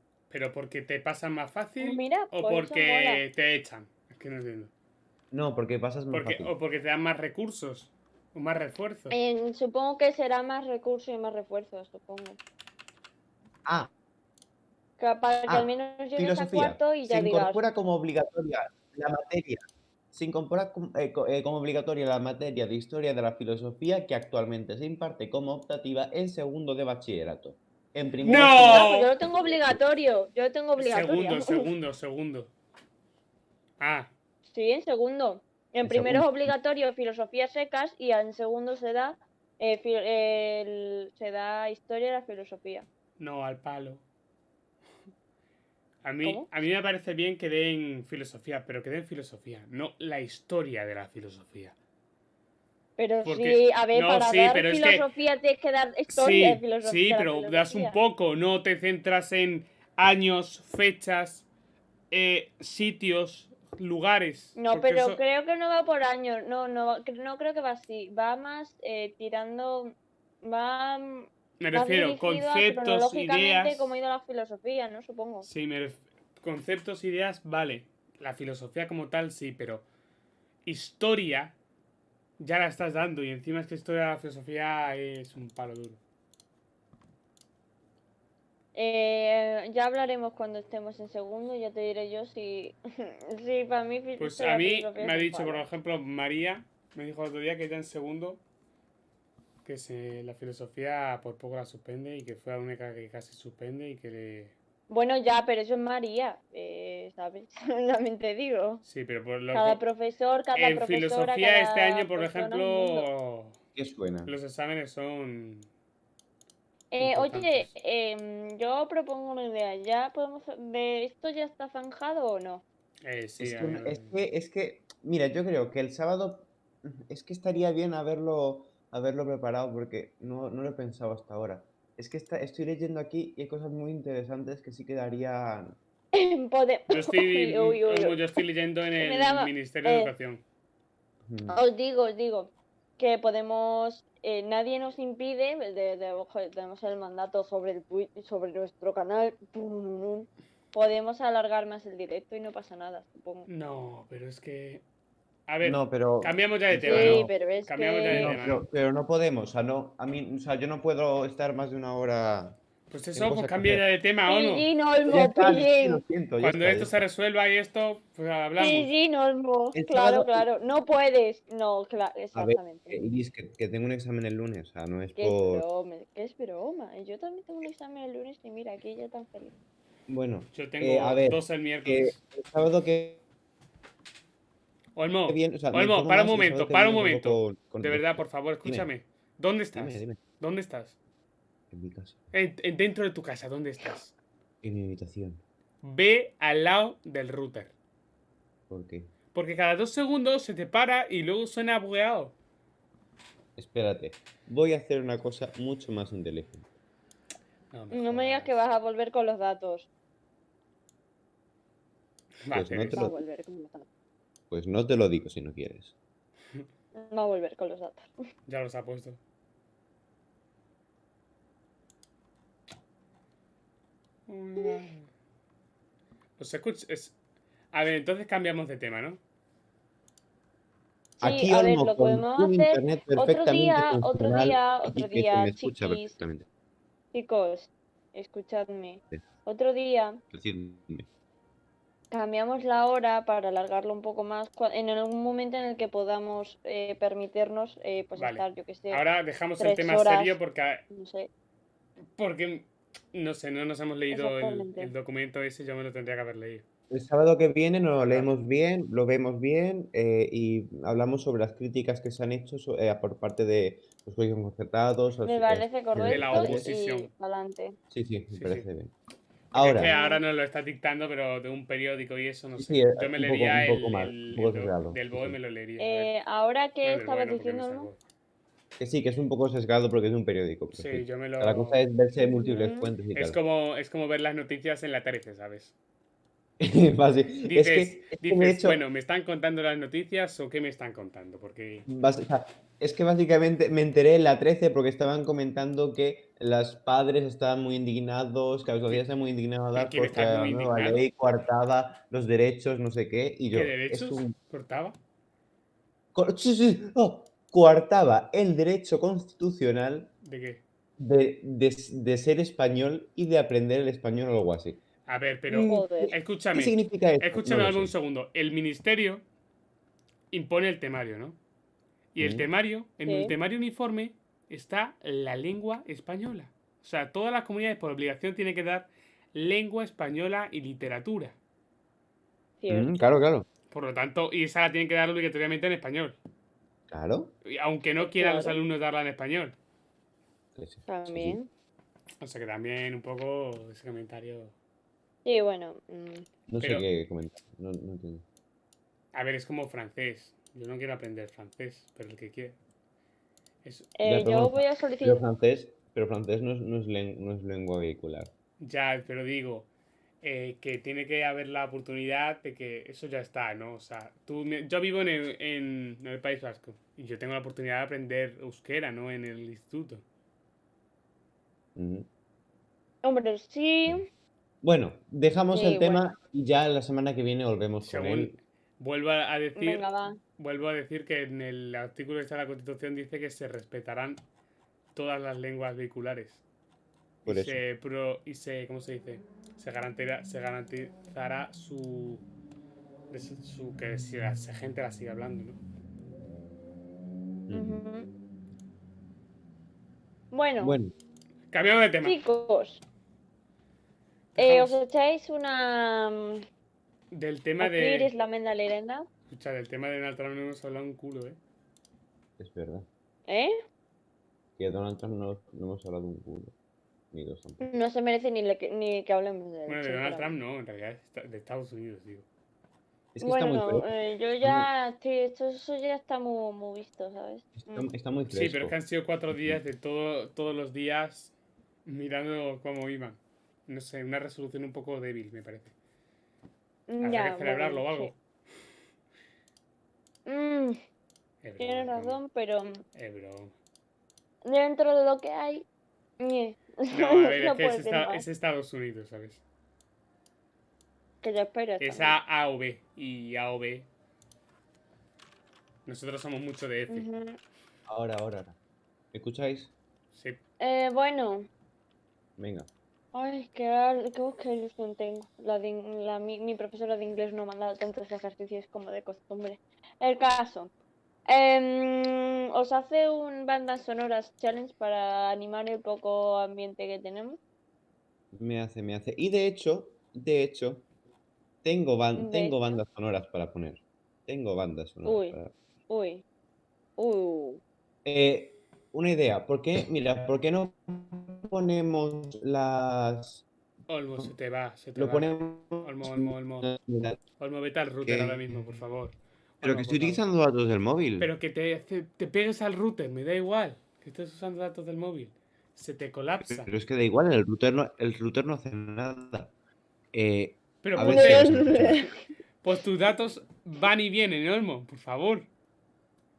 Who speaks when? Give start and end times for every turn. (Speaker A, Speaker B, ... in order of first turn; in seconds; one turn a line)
Speaker A: 0.3-4.7
Speaker B: 1.8-3.2
Speaker C: 5.3-6.5
Speaker A: 6.1-9.1
Speaker B: 9.1-12.4
Speaker B: 15.0-17.6
Speaker C: 15.4-28.9
Speaker A: 28.2-29.1
Speaker B: 28.3-31.7
Speaker C: 29.4-29.8
Speaker A: 30.8-32.5
Speaker A: 33.8-34.1
Speaker B: 34.5-42.9
Speaker C: 35.8-36.5
Speaker A: 43.2-44.0
Speaker A: 46.0-51.7
Speaker B: 53.0-58.0
Speaker A: 53.2-55.1
Speaker A: 56.1-61.5
Speaker A: 62.1-65.2
Speaker B: 64.5-75.5
Speaker A: 71.6-73.9
Speaker A: 75.4-79.8
Speaker A: 80.6-81.5
Speaker A: 82.4-86.0
Speaker B: 88.7-95.6
Speaker A: 94.2-98.4
Speaker A: 99.6-104.5
Speaker B: 104.9-108.8
Speaker A: 108.8-109.8
Speaker B: 109.5-113.1
Speaker A: 110.5-113.6
Speaker C: 113.8-114.3
Speaker A: 114.2-115.7
Speaker B: 116.9-122.6
Speaker A: 117.0-117.7
Speaker A: 123.0-124.2
Speaker C: 123.4-135.8
Speaker B: 136.1-138.2
Speaker A: 136.9-140.4
Speaker B: 139.0-140.1
Speaker C: 141.2-141.6
Speaker B: 141.5-153.5
Speaker A: 153.5-154.8
Speaker A: 155.5-158.6
Speaker C: 155.6-157.3
Speaker B: 156.8-158.4
Speaker C: 158.1-162.6
Speaker A: 162.9-164.7
Speaker C: 163.1-163.8
Speaker B: 164.2-166.0
Speaker C: 165.1-167.0
Speaker A: 166.4-168.9
Speaker B: 168.6-173.0
Speaker C: 169.7-170.4
Speaker C: 172.3-175.6
Speaker B: 175.1-179.5
Speaker C: 180.1-183.2
Speaker A: 180.5-182.2
Speaker A: 184.9-190.9
Speaker C: 185.3-188.9
Speaker C: 189.7-190.2
Speaker C: 191.7-192.2
Speaker A: 192.3-194.1
Speaker C: 194.6-195.4
Speaker A: 195.8-197.7
Speaker C: 198.7-199.1
Speaker A: 199.3-202.3
Speaker C: 203.6-206.7
Speaker A: 207.7-208.6
Speaker B: 207.9-209.9
Speaker A: 212.4-213.1
Speaker C: 212.5-213.2
Speaker B: 212.9-213.9
Speaker C: 214.5-215.9
Speaker B: 216.9-218.1
Speaker A: 218.5-219.2
Speaker A: 224.3-225.1
Speaker A: 226.4-227.2
Speaker A: 227.7-229.2
Speaker C: 231.2-236.5
Speaker B: 231.2-236.2
Speaker B: 237.1-240.2
Speaker C: 240.3-241.1
Speaker B: 242.1-249.0
Speaker A: 248.2-250.8
Speaker B: 249.6-250.4
Speaker B: 250.9-251.3
Speaker A: 252.2-256.6
Speaker B: 254.1-254.9
Speaker C: 256.9-266.6
Speaker B: 265.2-267.8
Speaker A: 266.0-267.1
Speaker C: 267.9-268.9
Speaker A: 268.3-268.6
Speaker C: 269.5-269.9
Speaker A: 269.5-276.1
Speaker B: 269.8-270.2
Speaker C: 272.6-275.4
Speaker B: 275.8-277.9
Speaker A: 276.8-278.0
Speaker C: 278.8-283.4
Speaker A: 280.7-281.8
Speaker B: 282.3-282.9
Speaker A: 283.1-285.7
Speaker C: 286.6-288.8
Speaker A: 287.4-291.9
Speaker C: 291.9-304.3
Speaker A: 299.7-301.0
Speaker A: 303.5-305.0
Speaker C: 306.1-310.1
Speaker A: 310.2-310.6
Speaker C: 311.0-314.8
Speaker A: 315.1-319.2
Speaker B: 315.5-316.1
Speaker C: 315.5-317.9
Speaker A: 320.3-321.4
Speaker A: 322.1-331.4
Speaker C: 322.2-322.4
Speaker B: 323.1-323.3
Speaker B: 332.6-333.0
Speaker C: 332.7-333.4
Speaker A: 333.7-336.2
Speaker C: 336.9-337.3
Speaker A: 337.4-339.6
Speaker B: 338.0-338.6
Speaker C: 340.5-341.4
Speaker B: 340.9-341.5
Speaker A: 342.2-344.5
Speaker B: 345.2-346.2
Speaker C: 346.5-348.2
Speaker A: 346.6-346.9
Speaker A: 349.1-352.6
Speaker A: 353.6-353.9
Speaker B: 354.0-355.2
Speaker C: 354.0-358.3
Speaker A: 358.6-359.7
Speaker A: 360.2-370.0
Speaker C: 371.8-372.1
Speaker B: 373.0-374.0
Speaker C: 374.6-378.3
Speaker B: 375.5-376.2
Speaker A: 377.8-379.8
Speaker B: 379.6-380.2
Speaker A: 380.4-384.2
Speaker A: 384.9-386.4
Speaker A: 387.2-392.2
Speaker C: 387.2-387.6
Speaker A: 393.1-395.6
Speaker C: 397.5-397.8
Speaker B: 397.5-398.1
Speaker B: 400.3-400.8
Speaker C: 400.6-400.9
Speaker A: 401.5-402.2
Speaker B: 402.0-402.8
Speaker A: 404.3-404.8
Speaker B: 404.4-406.4
Speaker A: 407.1-408.1
Speaker B: 407.6-409.1
Speaker A: 409.3-411.4
Speaker C: 412.4-412.9
Speaker B: 413.3-413.6
Speaker C: 414.6-416.5
Speaker C: 417.1-417.7
Speaker B: 417.6-420.3
Speaker A: 419.7-422.2
Speaker C: 423.1-423.9
Speaker B: 423.2-427.9
Speaker C: 424.4-424.7
Speaker C: 427.6-428.8
Speaker A: 428.3-431.3
Speaker C: 429.3-429.6
Speaker A: 431.9-435.7
Speaker B: 436.9-438.1
Speaker A: 437.0-438.2
Speaker B: 440.2-440.8
Speaker A: 441.4-442.2
Speaker B: 441.6-442.8
Speaker A: 442.9-443.5
Speaker B: 444.4-445.6
Speaker B: 446.2-448.2
Speaker A: 446.9-449.4
Speaker B: 451.2-452.2
Speaker A: 451.8-453.9
Speaker A: 455.9-457.1
Speaker B: 456.9-457.4
Speaker C: 457.9-458.6
Speaker C: 459.1-459.7
Speaker A: 460.1-460.4
Speaker B: 460.6-461.5
Speaker C: 462.4-462.7
Speaker B: 463.1-470.7
Speaker B: 471.3-477.4
Speaker C: 478.3-480.9
Speaker C: 481.6-485.5
Speaker B: 482.1-482.6
Speaker B: 485.0-485.4
Speaker B: 485.9-486.2
Speaker B: 487.0-487.6
Speaker C: 488.0-493.4
Speaker A: 493.9-496.7
Speaker C: 494.9-497.2
Speaker A: 497.4-500.2
Speaker C: 498.1-498.5
Speaker C: 499.6-501.3
Speaker A: 501.2-506.7
Speaker C: 506.5-509.5
Speaker C: 510.1-512.0
Speaker A: 510.8-511.6
Speaker B: 511.0-512.1
Speaker A: 512.6-515.5